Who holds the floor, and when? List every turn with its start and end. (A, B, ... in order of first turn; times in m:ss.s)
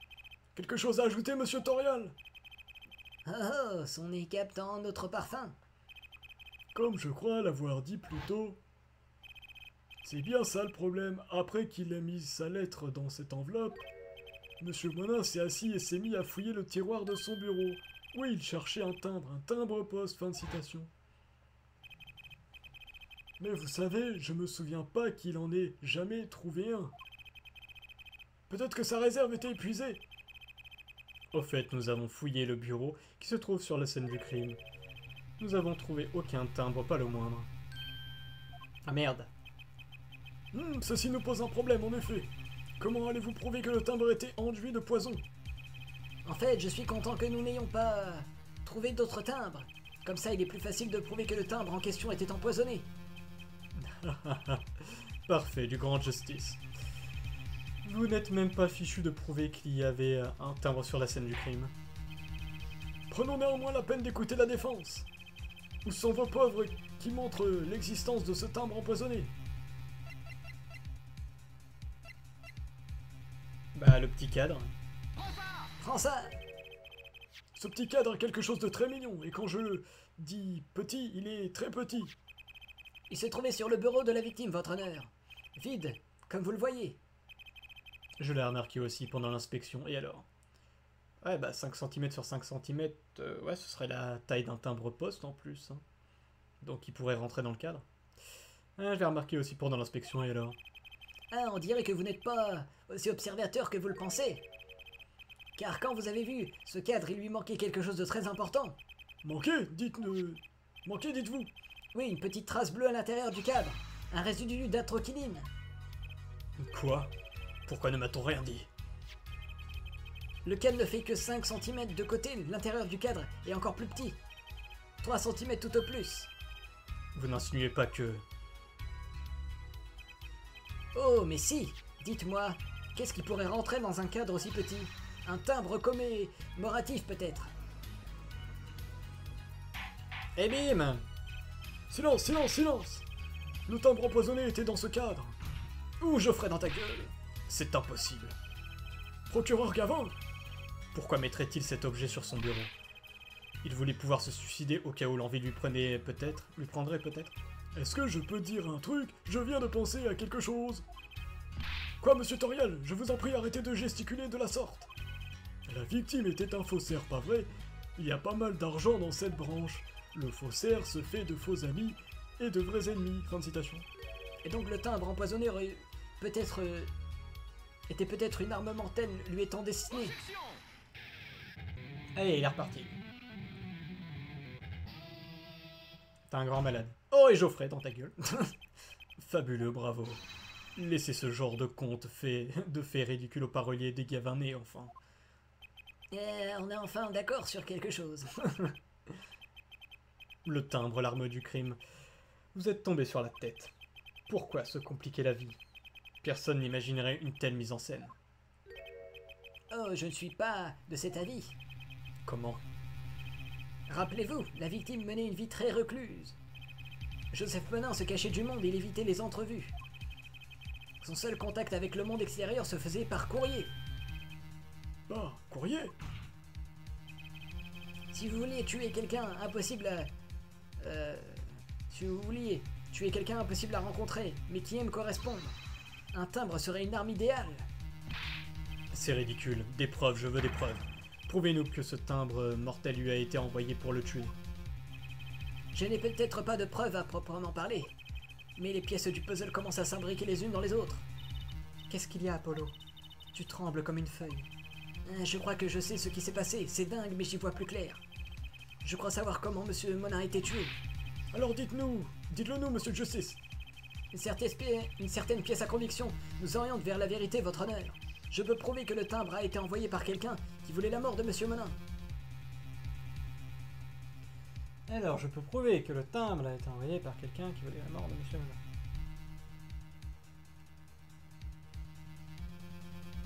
0:00.6-0:02.2 A
0:03.2-0:05.6 B
0:06.7-0:08.6 A
0:10.0-0:13.9 A
0:14.6-0:20.9 A
0:23.4-0:26.9 A
0:28.5-0:30.0 A
0:31.3-0:34.6 C
0:35.4-0:37.5 C
0:38.9-0:39.3 C
0:40.5-0:45.2 A
0:46.2-0:52.9 B
0:53.8-0:56.6 C
0:57.8-1:01.7 C
1:03.1-1:05.1 A
1:05.8-1:09.3 A
1:13.8-1:14.8 C
1:15.8-1:16.4 B
1:17.6-1:22.1 A
1:23.1-1:27.0 B
1:28.2-1:30.3 C
1:31.2-1:35.8 C
1:36.6-1:37.8 C
1:38.8-1:40.6 C
1:41.3-1:44.4 B
1:45.6-1:48.8 B
1:49.2-1:51.5 A
1:51.9-1:55.5 B
1:56.6-1:57.1 C
1:57.7-1:58.7 C
2:00.4-2:04.2 B
2:05.0-2:06.3 B
2:07.2-2:08.2 C
2:10.9-2:17.5 B
2:20.4-2:21.1 C
2:21.9-2:23.1 A
2:23.7-2:25.4 A
2:26.0-2:27.1 A
2:27.5-2:28.4 C
2:29.3-2:30.2 A
2:30.9-2:32.7 C
2:33.6-2:37.4 C
2:37.8-2:40.8 A
2:42.0-2:44.9 A
2:45.7-2:53.9 A
2:54.4-2:56.9 B
2:57.9-3:00.2 B
3:02.2-3:03.0 C
3:06.3-3:08.5 C
3:09.2-3:10.2 C
3:10.8-3:14.9 C
3:16.1-3:18.7 B
3:20.4-3:21.8 C
3:22.5-3:23.7 C
3:24.3-3:25.6 C
3:26.2-3:28.2 C
3:29.7-3:31.6 B
3:32.2-3:32.6 C
3:33.9-3:36.4 B
3:37.3-3:39.8 B
3:41.0-3:43.7 B
3:45.1-3:46.0 A
3:48.1-3:50.1 B
3:50.8-3:55.6 B
3:56.1-3:57.7 B
3:58.9-4:04.3 C
4:05.7-4:07.9 B
4:08.6-4:11.1 B
4:11.9-4:12.8 C
4:13.3-4:14.5 C
4:15.0-4:18.0 B
4:18.8-4:20.8 B
4:21.3-4:23.4 A
4:24.1-4:31.8 B
4:34.9-4:38.6 C